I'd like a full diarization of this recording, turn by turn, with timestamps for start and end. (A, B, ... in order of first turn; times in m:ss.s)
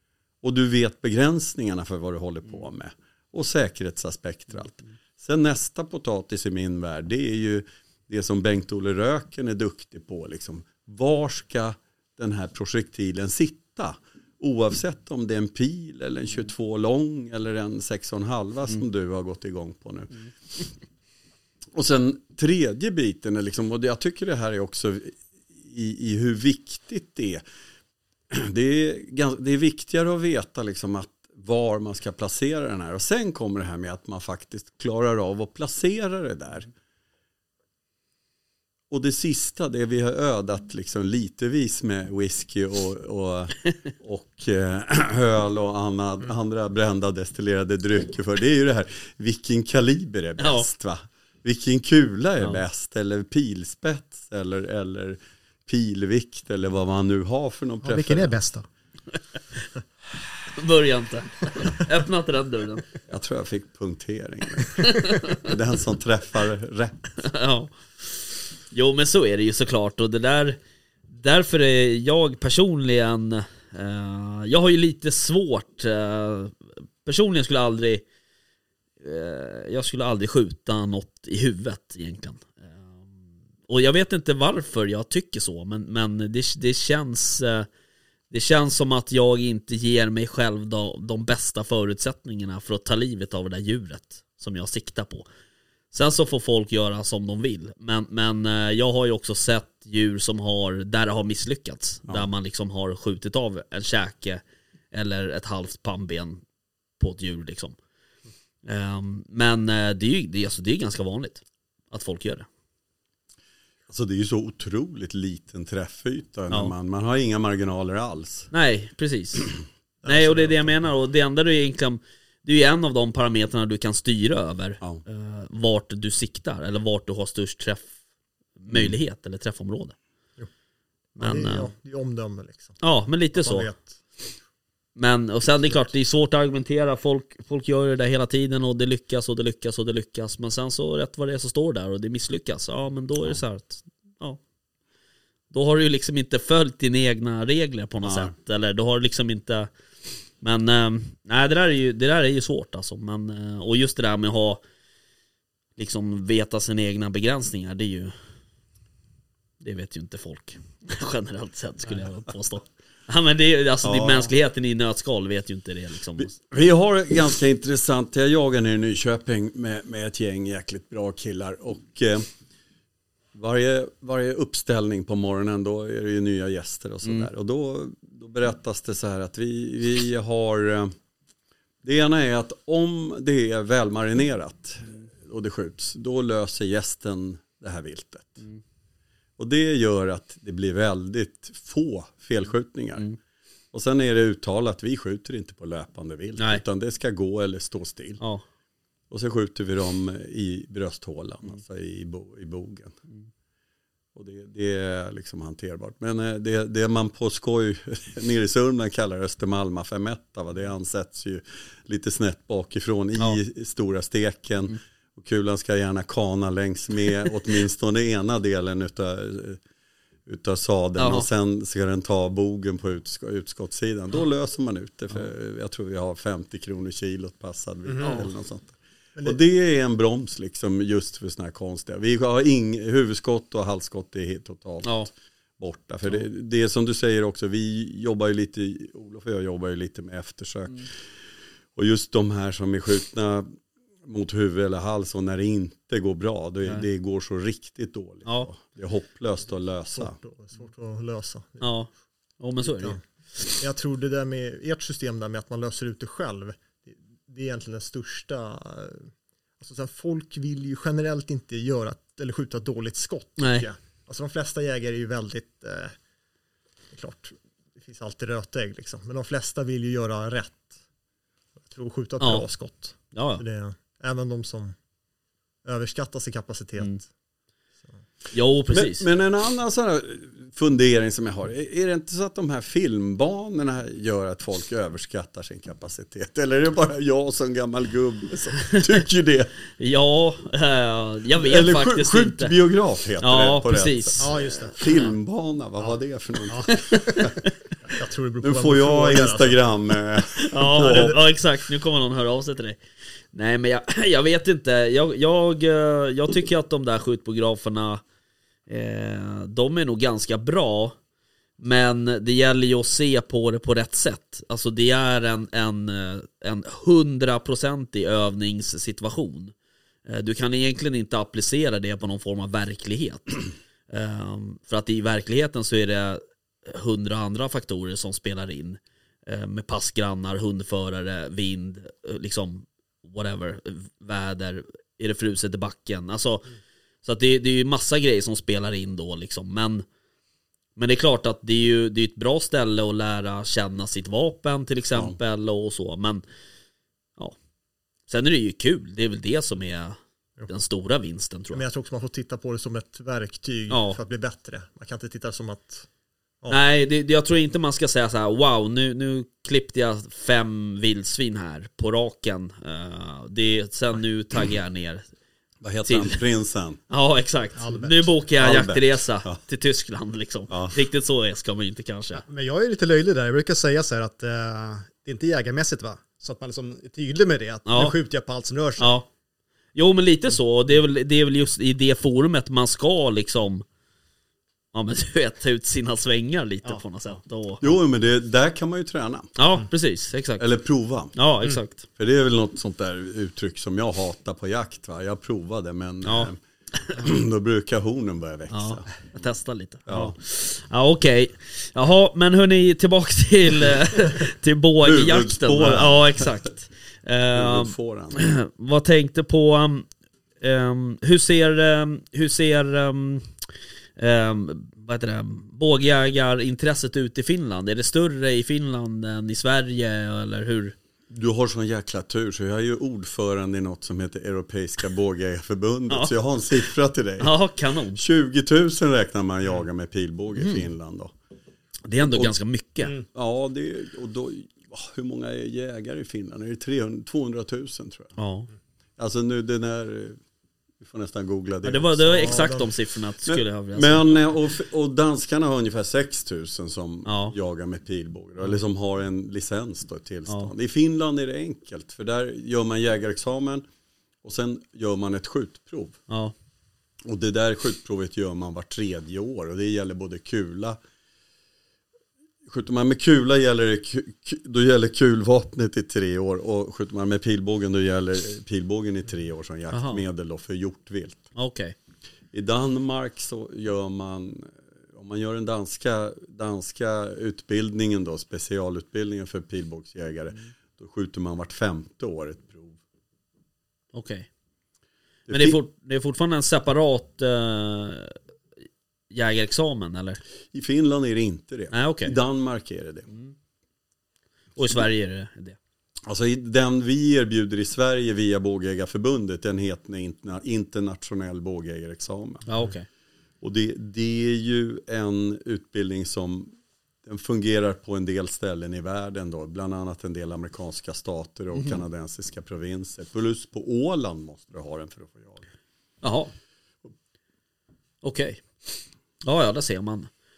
0:00.4-0:20.1 A
0:21.7-0:27.4 A
0:28.3-0:36.7 A
0:38.9-0:58.3 A
0:50.4-0:50.7 B
0:57.8-0:58.6 C
1:00.5-1:02.8 B
1:03.1-1:07.0 A
1:04.8-1:05.4 B
1:07.2-1:10.6 B
1:11.1-1:18.0 B
1:19.0-1:23.1 B
1:23.7-1:27.7 B
1:28.3-1:35.2 B
1:35.9-1:46.4 B
1:47.0-1:47.8 B
1:48.6-1:52.5 B
1:53.9-1:58.5 A
1:58.5-1:59.5 B
2:00.0-2:00.8 D
2:00.0-2:07.9 B
2:08.6-2:09.9 B
2:11.2-2:12.8 D
2:11.2-2:11.7 B
2:12.8-2:13.7 B
2:13.3-2:14.2 D
2:15.0-2:24.4 B
2:25.5-2:29.7 B
2:28.0-2:28.3 A
2:30.4-2:34.6 B
2:35.8-2:38.1 B
2:39.6-2:46.3 B
2:43.8-2:44.3 A
2:46.2-2:52.2 A
2:53.3-3:00.9 A
3:01.8-3:08.4 A
3:09.4-3:13.0 A
3:13.7-3:18.2 A
3:16.4-3:16.6 B
3:19.1-3:22.9 A
3:24.1-3:39.6 A
3:40.2-4:00.9 A
3:41.0-3:41.3 B
3:48.0-3:48.3 B
4:01.7-4:10.2 A
4:09.9-4:11.7 D
4:11.6-4:13.0 B
4:12.7-4:13.0 D
4:13.6-4:26.0 D
4:23.4-4:23.7 B
4:26.9-4:30.7 D
4:31.6-4:34.8 D
4:32.2-4:32.4 B
4:33.1-4:33.4 B
4:35.6-4:37.1 D
4:38.3-4:39.1 B
4:38.7-4:49.5 A
4:49.8-4:52.5 B
4:51.4-4:57.3 A
4:53.2-4:55.0 B
4:54.2-4:54.7 C
4:56.7-4:57.5 B
4:57.8-4:59.6 D
4:58.4-5:01.2 A
5:00.4-5:02.8 B
5:00.6-5:01.2 D
5:03.3-5:08.0 B
5:08.7-5:11.0 B
5:11.6-5:19.5 B
5:20.0-5:36.5 B
5:37.0-5:39.8 B
5:40.8-5:46.2 B
5:48.1-5:51.6 B
5:51.5-5:55.8 D
5:53.7-5:54.0 B
5:56.5-6:05.1 B
6:05.6-6:06.8 A
6:05.8-6:06.2 B
6:06.9-6:12.2 B
6:07.6-6:08.1 C
6:08.4-6:09.4 A
6:10.5-6:10.8 A
6:12.2-6:19.0 C
6:17.7-6:17.9 B
6:18.8-6:19.1 B
6:19.7-6:23.6 B
6:24.7-6:27.7 B
6:27.6-6:29.3 A
6:29.4-6:30.4 B
6:30.4-6:31.1 A
6:31.2-6:31.8 B
6:32.0-6:36.4 A
6:36.0-6:36.3 B
6:36.9-6:38.9 A
6:38.5-6:49.9 B
6:39.9-6:40.1 A
6:44.8-6:46.3 A
6:47.3-6:48.2 A
6:50.4-6:53.3 B
6:54.0-7:00.7 B
7:01.1-7:07.3 A
7:07.2-7:08.0 B
7:07.9-7:11.1 A
7:10.4-7:10.6 B
7:11.9-7:13.0 B
7:12.0-7:12.3 A
7:13.1-7:18.1 A
7:18.2-7:18.5 B
7:19.0-7:20.2 A
7:20.8-7:22.6 A
7:21.6-7:24.2 B
7:22.2-7:22.7 D
7:23.2-7:33.6 A
7:27.0-7:27.3 B
7:34.2-7:36.0 A
7:36.1-7:36.3 B
7:37.0-7:40.8 A
7:42.4-7:51.3 A
7:49.7-7:50.0 B
7:51.4-7:51.7 B
7:52.3-8:02.8 A
8:03.9-8:04.3 B
8:05.3-8:05.6 A
8:05.3-8:08.2 B
8:09.1-8:10.2 B
8:10.5-8:13.1 A
8:11.7-8:12.2 B
8:14.6-8:15.6 B
8:16.0-8:22.6 A
8:22.5-8:22.9 B
8:23.4-8:26.5 A
8:27.0-8:35.4 A
8:36.0-8:36.3 B
8:38.0-8:38.6 B
8:39.2-8:40.1 B